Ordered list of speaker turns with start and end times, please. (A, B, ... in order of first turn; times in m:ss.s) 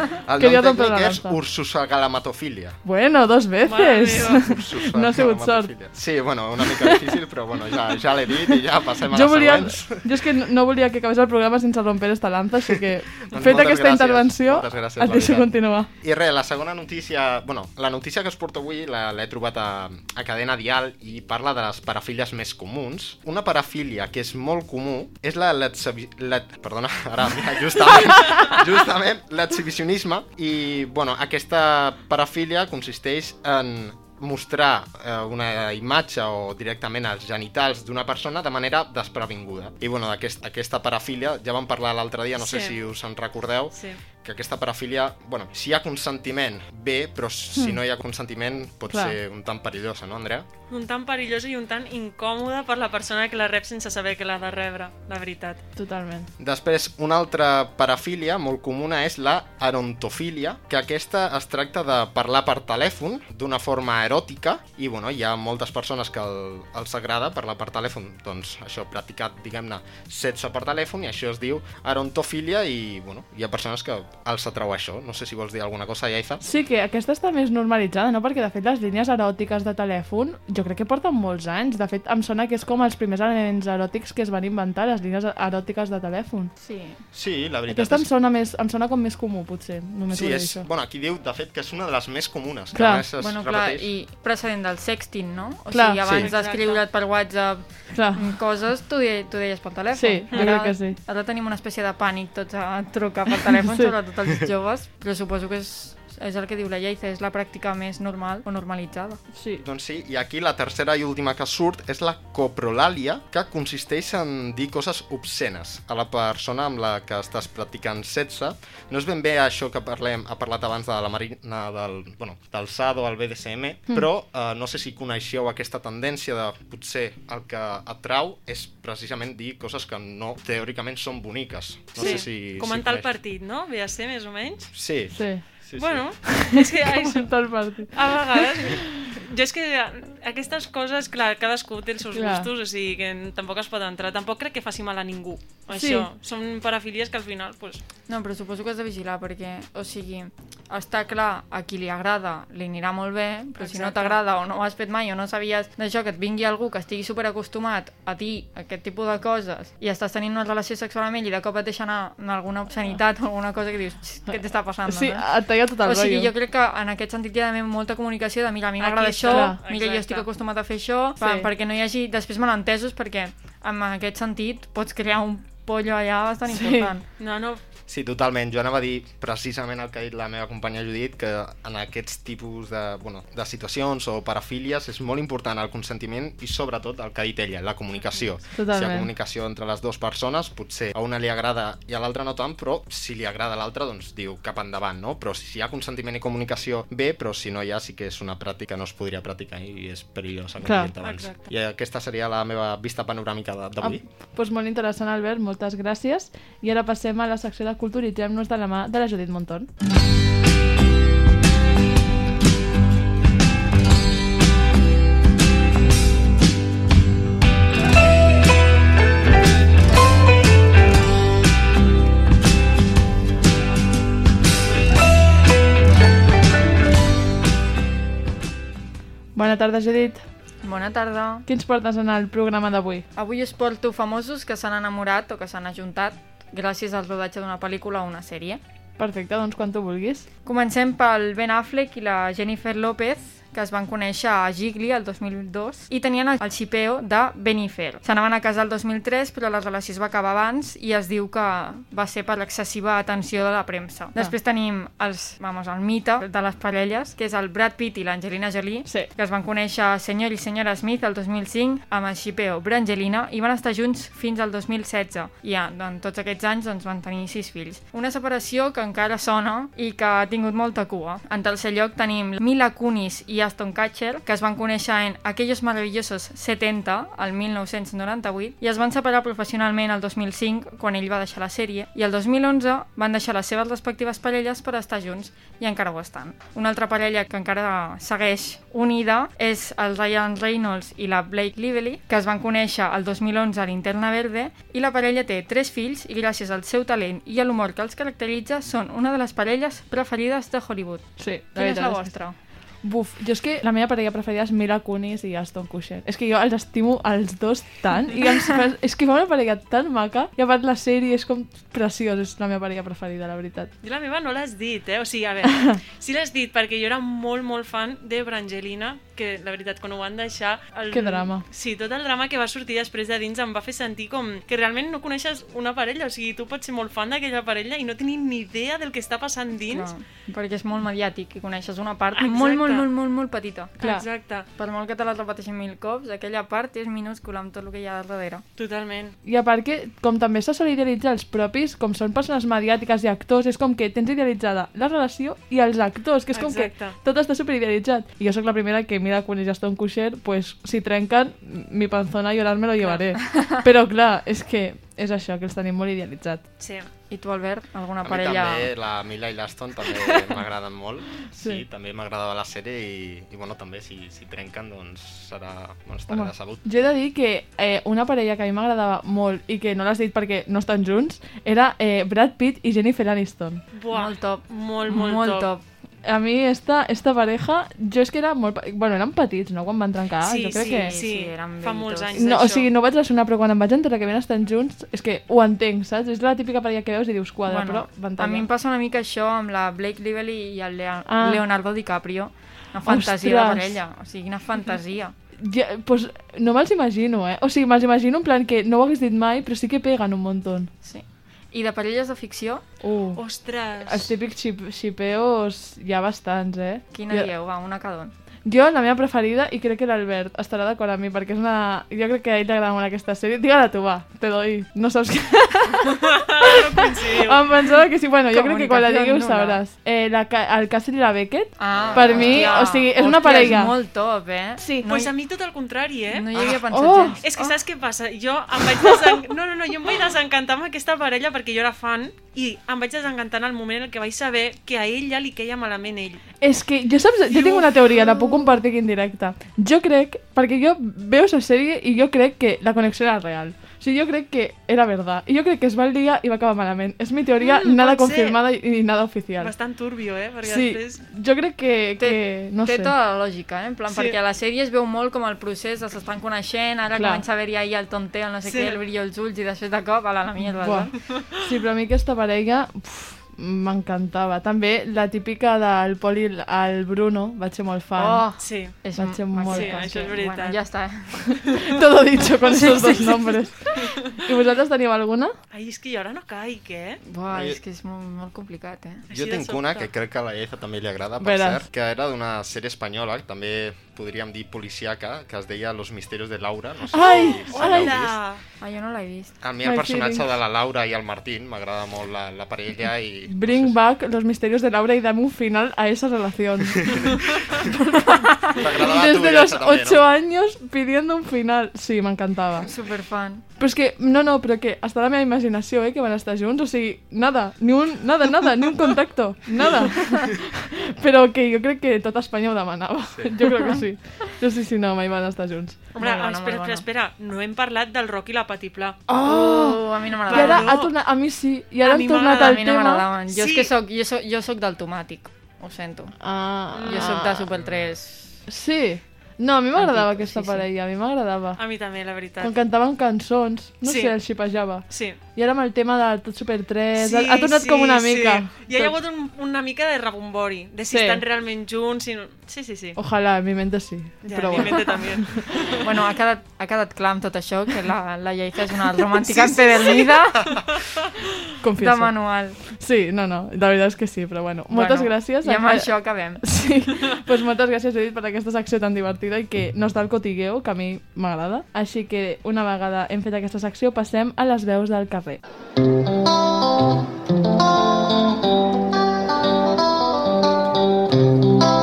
0:00.2-0:02.8 A
0:00.4-0:01.4 B
0:02.8-0:05.8 B
0:03.6-0:04.6 C
0:04.4-0:10.2 A
0:09.1-0:15.9 B
0:13.3-0:50.5 A
0:42.4-0:42.8 C
0:43.7-0:44.0 C
0:48.9-0:49.2 B
0:50.7-0:55.6 C
0:55.8-0:56.3 B
0:56.4-1:16.4 A
1:16.4-1:26.5 B
1:26.6-1:27.0 D
1:27.1-1:28.1 A
1:27.7-1:30.7 B
1:30.1-1:33.9 A
1:32.7-1:33.0 B
1:33.2-1:49.2 D
1:35.7-1:36.2 B
1:36.2-1:36.8 C
1:37.9-1:38.2 B
1:39.9-1:41.0 B
1:43.6-1:43.9 B
1:49.3-1:49.6 B
1:49.6-2:13.1 A
2:12.0-2:14.7 C
2:12.0-2:12.2 B
2:14.7-2:16.5 A
2:15.1-2:15.6 B
2:15.8-2:27.8 C
2:16.4-2:18.7 B
2:22.1-2:22.5 B
2:25.7-2:26.1 B
2:28.1-2:57.1 D
2:33.6-2:34.2 C
2:33.8-2:34.1 B
2:44.3-2:46.3 B
2:48.8-2:50.3 C
2:48.8-2:49.6 B
2:51.2-2:51.5 B
2:56.5-2:56.9 B
2:57.2-2:57.6 C
2:57.9-3:24.1 A
3:08.5-3:09.1 B
3:20.6-3:20.9 B
3:21.0-3:21.5 C
3:23.8-3:29.7 B
3:49.4-3:50.2 B
3:50.6-3:51.5 D
3:51.5-3:53.1 B
3:53.2-3:58.6 D
3:59.0-4:00.3 B
4:00.4-5:02.4 D
5:01.2-5:13.7 B
5:13.8-5:29.9 C
5:20.9-5:21.5 B
5:29.6-5:33.8 D
5:32.2-5:32.9 C
5:33.8-5:34.1 B
5:33.8-5:34.5 C
5:34.6-5:38.4 D
5:38.6-5:39.2 C
5:39.2-5:56.5 B
5:46.3-5:47.0 C
5:52.8-5:53.1 C
5:56.6-5:56.9 C
5:57.1-5:58.7 D
5:58.0-6:06.7 A
6:01.4-6:01.6 B
6:06.1-6:13.6 B
6:13.7-6:15.5 C
6:13.9-6:15.6 D
6:16.0-6:21.0 B
6:20.2-6:22.7 C
6:20.5-6:22.4 D
6:22.2-6:28.5 B
6:27.5-6:35.2 D
6:31.1-6:31.4 B
6:32.9-6:33.8 B
6:35.4-6:40.7 B
6:40.8-6:42.8 D
6:42.8-6:47.3 B
6:43.1-6:44.1 C
6:46.9-6:48.1 D
6:48.4-6:55.9 B
6:56.1-6:57.4 C
6:57.2-7:03.8 B
6:58.3-6:59.6 D
7:01.6-7:05.1 D
7:02.0-7:02.6 C
7:04.6-7:05.0 B
7:04.8-7:06.6 C
7:06.1-7:07.6 D
7:06.7-7:07.2 B
7:07.2-7:16.2 C
7:16.4-7:29.6 B
7:17.3-7:18.6 C
7:27.4-7:28.4 C
7:29.4-7:31.1 C
7:30.4-7:32.9 B
7:32.0-7:41.0 D
7:33.9-7:34.2 C
7:36.9-7:37.2 B
7:38.4-7:38.8 C
7:40.6-7:50.1 B
7:48.0-7:51.4 D
7:48.4-7:51.0 C
7:51.2-7:55.3 B
7:52.4-7:53.5 D
7:55.5-7:57.0 C
7:57.0-7:59.0 D
7:57.3-7:57.6 A
7:59.1-7:59.9 C
7:59.1-8:08.2 A
8:01.2-8:01.6 B
8:06.9-8:08.2 B
8:07.0-8:08.4 C
8:08.6-8:09.4 D
8:09.4-8:13.8 A
8:09.6-8:10.3 B
8:13.3-8:17.1 B
8:18.1-8:22.7 B
8:18.6-8:20.1 A
8:22.6-8:23.4 D
8:23.6-8:35.9 B
8:33.0-8:33.4 A
8:36.0-8:39.0 C
8:36.0-8:36.9 D
8:39.1-8:43.0 B
8:39.2-8:40.7 D
8:40.3-8:41.0 C
8:41.9-8:48.4 D
8:42.0-8:42.5 C
8:43.3-8:43.7 C
8:46.2-8:47.5 B
8:46.7-8:47.4 C
8:47.5-8:48.0 A
8:48.5-8:59.0 B
8:49.8-8:50.7 D
8:51.6-8:52.6 C
8:53.8-8:54.3 C
8:54.9-8:55.2 C
8:57.0-9:03.0 C
9:00.9-9:01.2 B
9:03.0-9:05.4 B
9:04.2-9:05.9 C
9:05.8-9:10.6 D
9:09.5-9:10.1 C
9:11.6-9:25.4 B
9:11.8-9:12.6 D
9:14.7-9:16.4 D